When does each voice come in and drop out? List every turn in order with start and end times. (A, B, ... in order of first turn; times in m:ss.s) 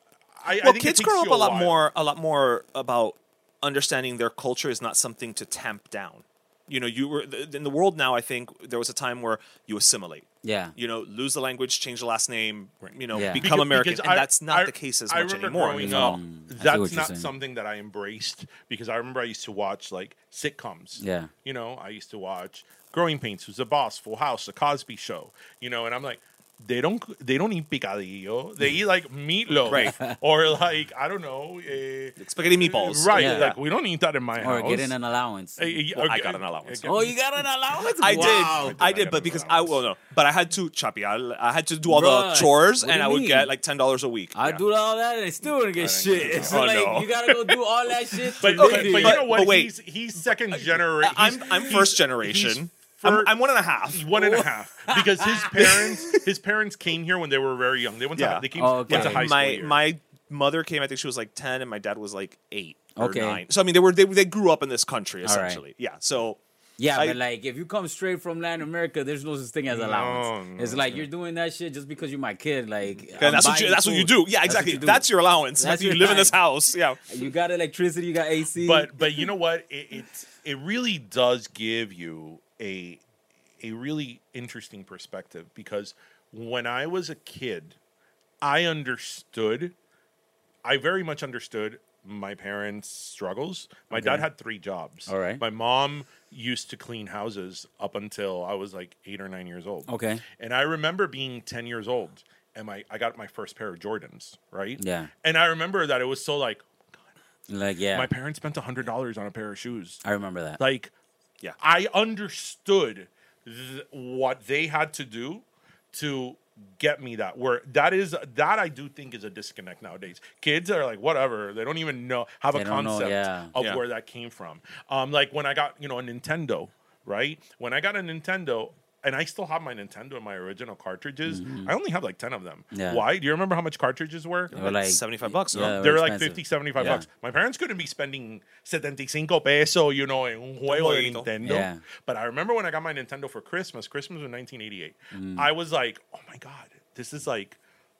0:00.4-0:01.8 A
0:00.6-0:16.2 B
0:10.4-0:10.7 C
0:12.8-0:35.0 A
0:13.1-0:13.4 C
0:15.8-0:17.3 C
0:21.0-0:21.3 C
0:29.7-0:29.9 B
0:29.7-0:30.2 C
0:32.2-0:33.5 B
0:33.1-0:33.6 C
0:34.4-0:36.0 C
0:35.6-0:37.2 A
0:36.0-0:36.8 B
0:36.8-0:38.8 C
0:38.0-0:44.6 B
0:38.0-0:39.8 A
0:41.9-0:43.5 C
0:44.3-0:49.3 C
0:45.7-0:46.7 A
0:46.2-0:47.1 B
0:47.3-0:47.5 A
0:48.4-0:53.4 A
0:48.5-0:49.7 B
0:50.5-0:54.1 B
0:53.9-0:59.8 A
0:54.1-0:56.2 C
0:58.2-1:06.4 B
0:58.6-0:59.2 C
1:03.0-1:03.4 C
1:05.2-1:05.6 C
1:06.8-1:15.0 C
1:09.7-1:11.1 A
1:13.2-1:17.2 B
1:15.6-1:16.4 C
1:17.1-1:18.9 C
1:18.6-1:23.0 A
1:23.6-1:27.8 A
1:28.4-1:29.7 A
1:30.6-1:47.1 A
1:33.9-1:34.2 C
1:35.1-1:35.4 C
1:39.9-1:40.2 C
1:44.8-1:45.1 C
1:47.5-1:48.1 C
1:47.9-1:50.0 A
1:50.0-1:50.6 C
1:50.6-1:50.9 A
1:51.6-2:14.6 A
2:02.5-2:03.5 C
2:11.3-2:11.7 C
2:12.7-2:13.0 C
2:14.5-2:17.1 C
2:14.6-2:15.7 B
2:15.7-2:27.6 A
2:20.7-2:21.3 B
2:21.4-2:21.8 C
2:25.1-2:25.5 C